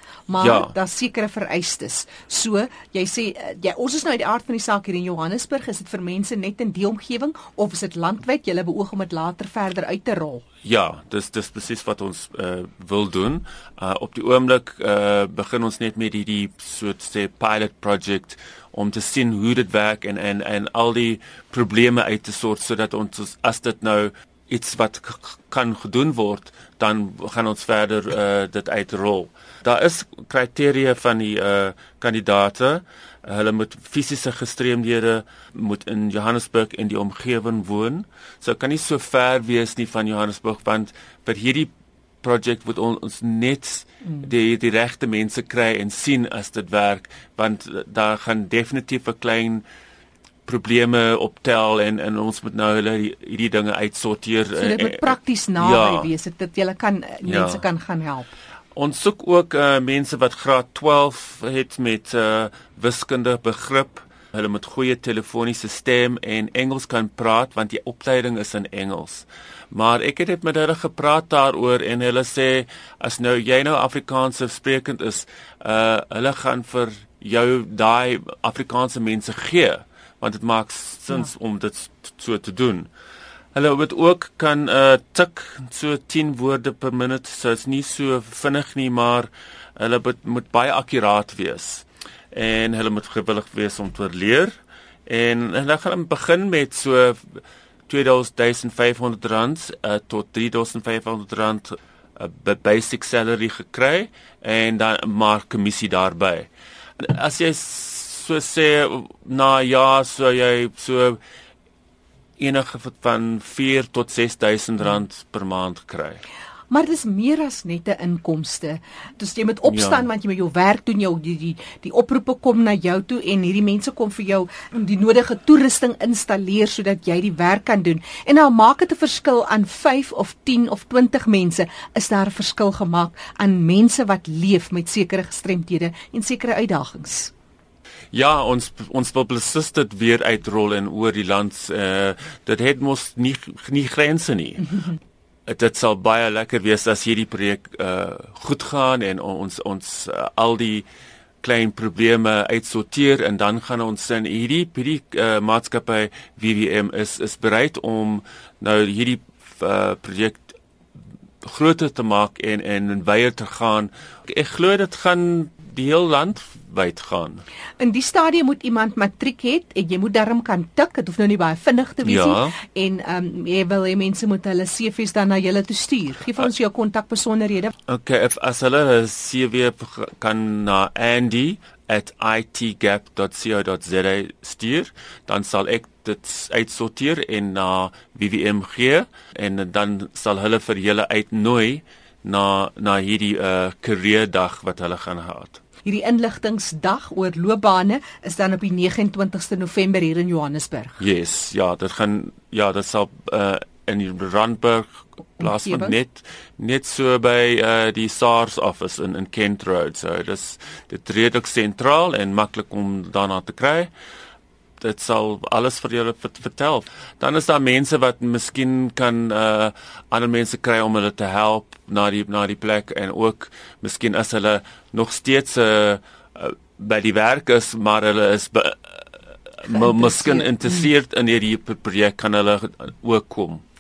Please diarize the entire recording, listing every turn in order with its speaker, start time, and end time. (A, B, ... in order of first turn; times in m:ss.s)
0:00.3-0:10.4 A
0:00.4-0:00.7 B
0:10.6-0:41.7 B
0:42.2-0:49.6 B
0:50.5-0:56.1 B
0:54.6-0:58.3 A
0:57.2-0:57.6 B
0:58.8-1:22.9 B
1:23.5-1:34.5 B
1:35.1-1:46.5 B
1:47.0-1:51.2 B
1:52.4-1:56.2 B
1:56.7-2:17.3 A
1:59.7-2:00.0 B
2:18.1-2:24.7 B
2:25.5-2:30.8 B
2:31.4-2:40.6 B
2:41.4-2:47.4 B
2:47.8-2:57.7 A
2:52.0-2:52.6 B
2:57.9-3:15.6 B
3:15.8-3:21.0 A
3:21.0-3:24.9 B
3:25.4-3:33.9 B
3:25.4-3:25.9 A
3:34.8-3:49.0 B
3:49.6-3:53.6 B
3:49.7-3:50.5 A